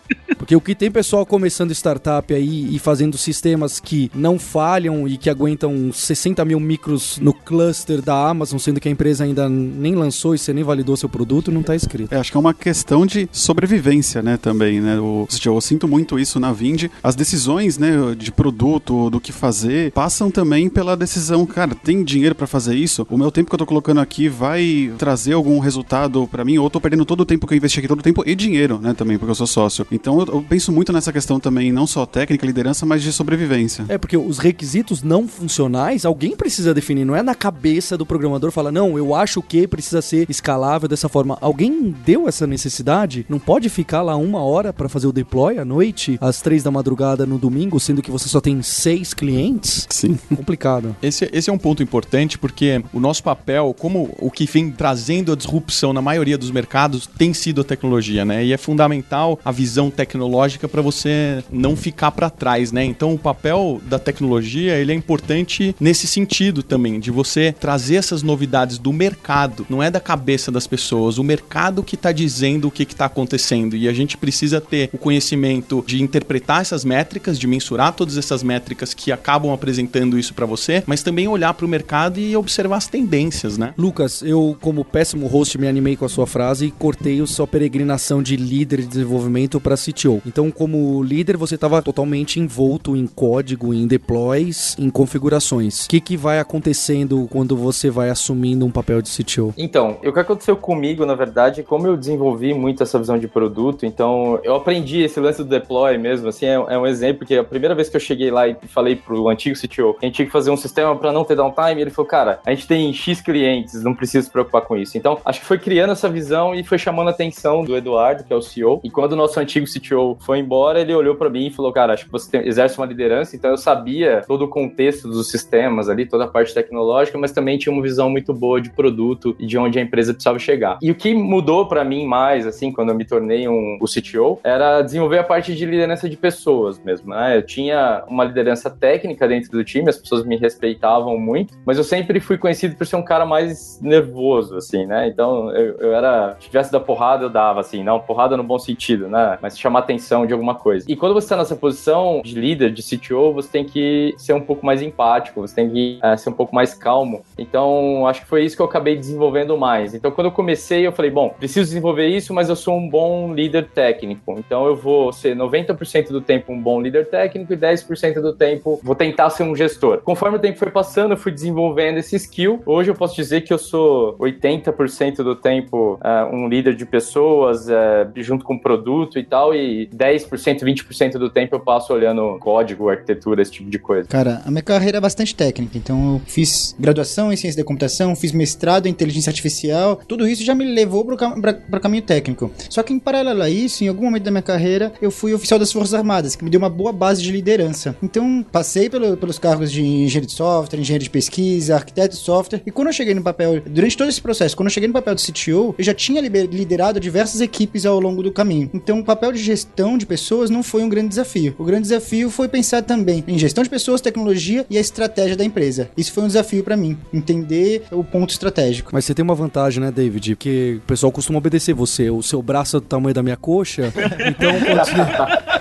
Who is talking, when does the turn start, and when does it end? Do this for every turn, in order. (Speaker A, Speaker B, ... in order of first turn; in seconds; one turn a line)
Speaker A: 0.4-12.1
Speaker B: 12.1-33.9
Speaker A: 33.9-51.0
Speaker B: 49.9-50.3
Speaker C: 51.0-83.8
Speaker A: 83.8-99.6
Speaker D: 99.6-184.1
Speaker E: 184.1-218.9
Speaker A: 218.9-225.3
Speaker D: 224.8-225.3